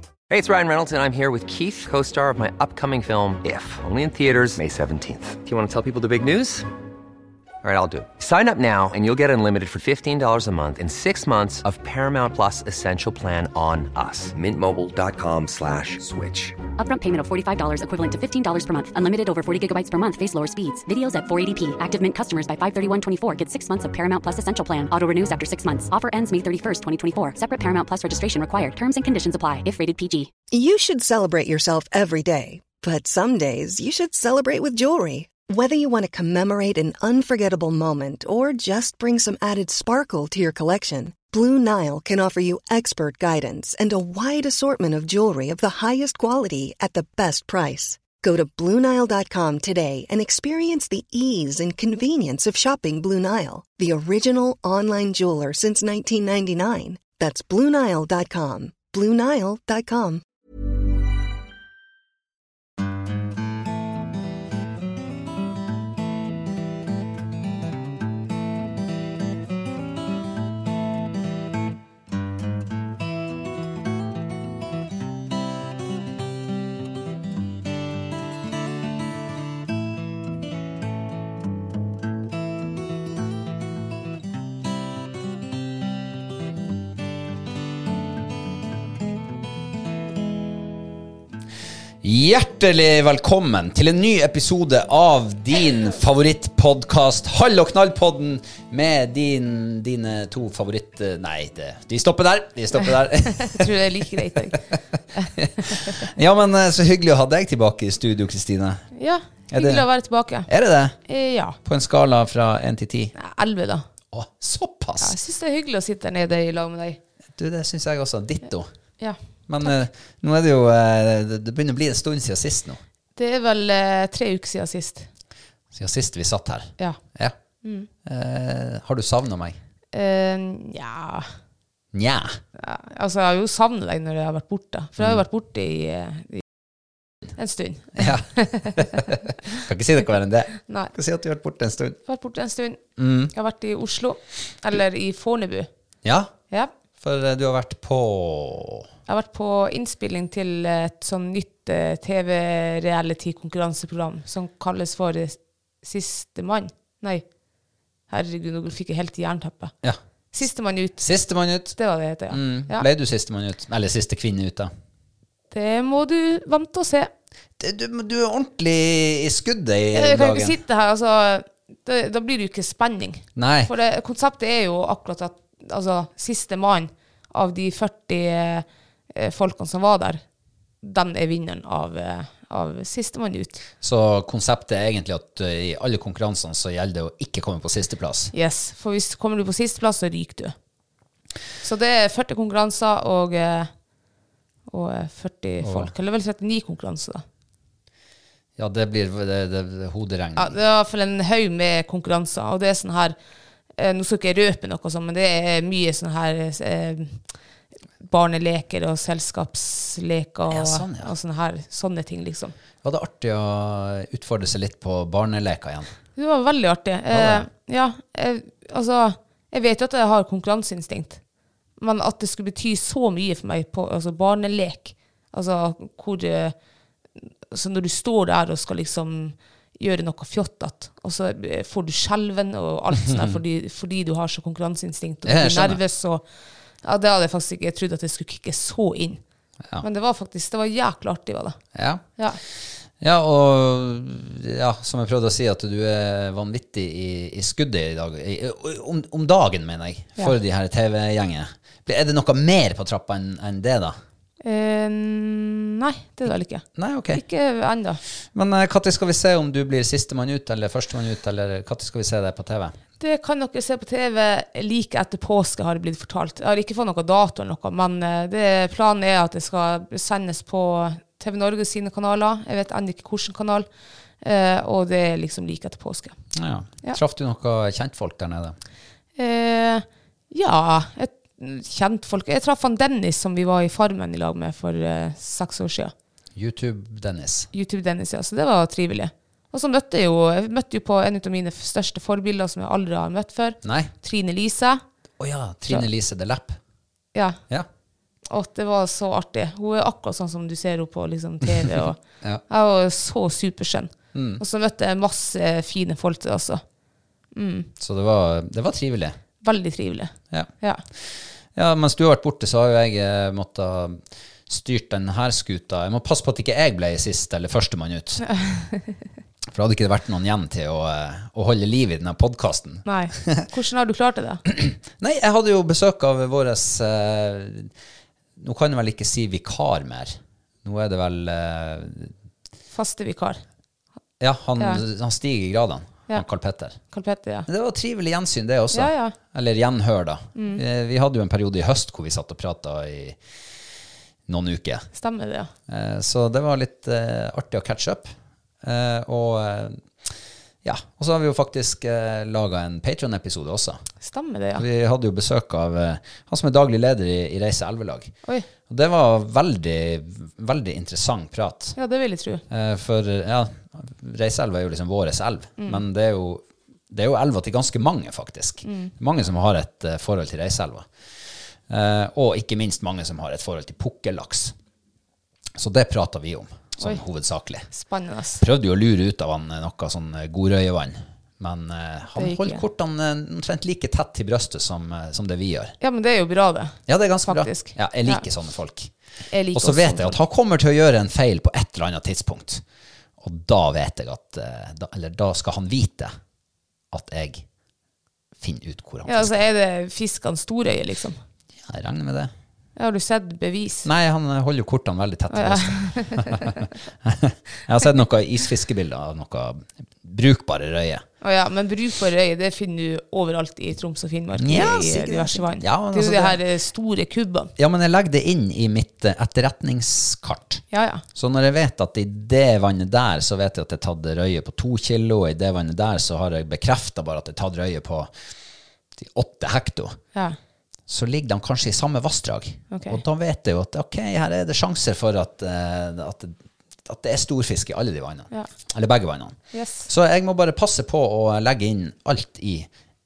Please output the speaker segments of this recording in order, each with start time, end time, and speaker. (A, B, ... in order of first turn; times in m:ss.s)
0:00.3-0:06.6 A
0:07.6-0:16.6 A
0:16.8-0:30.3 B
0:30.5-1:00.2 C
1:32.0-1:44.0 D
1:43.4-1:44.6 E
1:45.3-1:48.9 D
1:49.0-1:50.5 E
1:49.5-1:49.9 D
1:50.5-1:51.0 D
1:51.1-1:51.6 E
1:51.6-1:53.1 D
1:53.2-1:53.8 E
1:54.1-1:55.2 D
1:55.0-1:57.0 E
1:57.4-1:58.7 D
1:59.0-1:59.8 E
1:59.5-2:02.8 D
2:03.2-2:05.1 E
2:05.7-2:07.4 D
2:07.6-2:07.9 E
2:08.0-2:09.6 D
2:09.9-2:11.3 E
2:11.9-2:12.4 D
2:12.6-2:16.4 E
2:17.4-2:19.2 E
2:18.0-2:22.0 D
2:20.7-2:20.9 E
2:22.1-2:22.8 E
2:23.0-2:23.3 D
2:23.3-2:25.7 E
2:26.0-2:26.3 D
2:27.0-2:28.9 D
2:29.1-2:37.2 E
2:38.1-2:39.8 E
2:40.3-2:41.0 E
2:41.0-2:41.8 D
2:41.8-2:42.9 E
2:42.3-2:44.7 D
2:45.5-2:47.1 E
2:47.6-2:50.6 D
2:49.9-3:00.2 E
2:53.4-2:53.7 D
3:00.8-3:03.6 E
3:03.8-3:08.3 D
3:08.3-3:10.5 E
3:11.6-3:13.7 E
3:14.7-3:17.2 E
3:15.6-3:15.9 D
3:18.6-3:20.6 D
3:20.4-3:23.2 E
3:23.8-3:27.2 E
3:28.0-3:32.6 E
3:30.5-3:31.1 D
3:32.8-3:35.9 D
3:36.2-3:41.2 E
3:37.1-3:37.5 D
3:41.8-3:46.6 E
3:47.2-3:56.2 E
3:55.3-3:55.8 D
3:56.8-3:59.2 E
3:59.8-4:01.6 E
4:01.8-4:02.0 D
4:03.0-4:14.0 D
4:14.4-4:18.0 E
4:16.8-4:17.2 D
4:18.3-4:22.8 D
4:23.0-4:33.7 E
4:34.2-4:36.2 E
4:36.3-4:38.6 D
4:39.2-4:45.9 E
4:46.4-4:47.5 D
4:47.5-4:54.8 E
4:53.6-4:53.9 D
4:55.2-4:56.6 D
4:57.1-4:57.4 E
4:58.3-5:06.6 E
5:04.1-5:04.4 D
5:07.4-5:07.7 E
5:07.8-5:09.2 D
5:09.4-5:10.8 E
5:11.0-5:18.2 D
5:18.2-5:19.0 E
5:19.5-5:23.5 D
5:22.8-5:24.4 E
5:24.5-5:27.7 D
5:28.4-5:32.1 D
5:32.7-5:33.4 E
5:34.2-5:36.8 D
5:36.9-5:37.5 E
5:37.5-5:43.2 D
5:38.7-5:39.2 E
5:40.4-5:40.6 E
5:44.3-5:44.9 D
5:45.0-5:45.5 E
5:45.7-5:48.1 D
5:48.6-5:50.1 D
5:50.6-5:53.8 D
5:54.0-5:54.6 E
5:54.6-5:58.1 D
5:58.7-6:01.8 D
6:01.8-6:02.4 E
6:02.5-6:10.9 D
6:05.6-6:05.8 E
6:08.6-6:08.9 E
6:11.7-6:14.6 D
6:15.6-6:17.7 D
6:17.7-6:18.4 E
6:18.4-6:25.8 D
6:22.2-6:22.6 E
6:25.8-6:28.2 E
6:26.9-6:28.9 D
6:29.3-6:30.2 E
6:29.5-6:32.6 D
6:33.2-6:36.2 D
6:36.9-6:37.4 D
6:38.4-6:39.4 D
6:39.1-6:41.2 E
6:41.6-6:42.3 D
6:42.8-6:43.9 E
6:43.8-6:51.0 D
6:45.3-6:46.7 E
6:51.2-6:57.5 E
6:54.4-6:56.4 D
6:57.6-7:00.6 D
7:00.7-7:01.0 E
7:01.2-7:08.1 D
7:09.0-7:10.0 D
7:10.9-7:22.7 D
7:12.7-7:13.0 E
7:19.5-7:19.9 E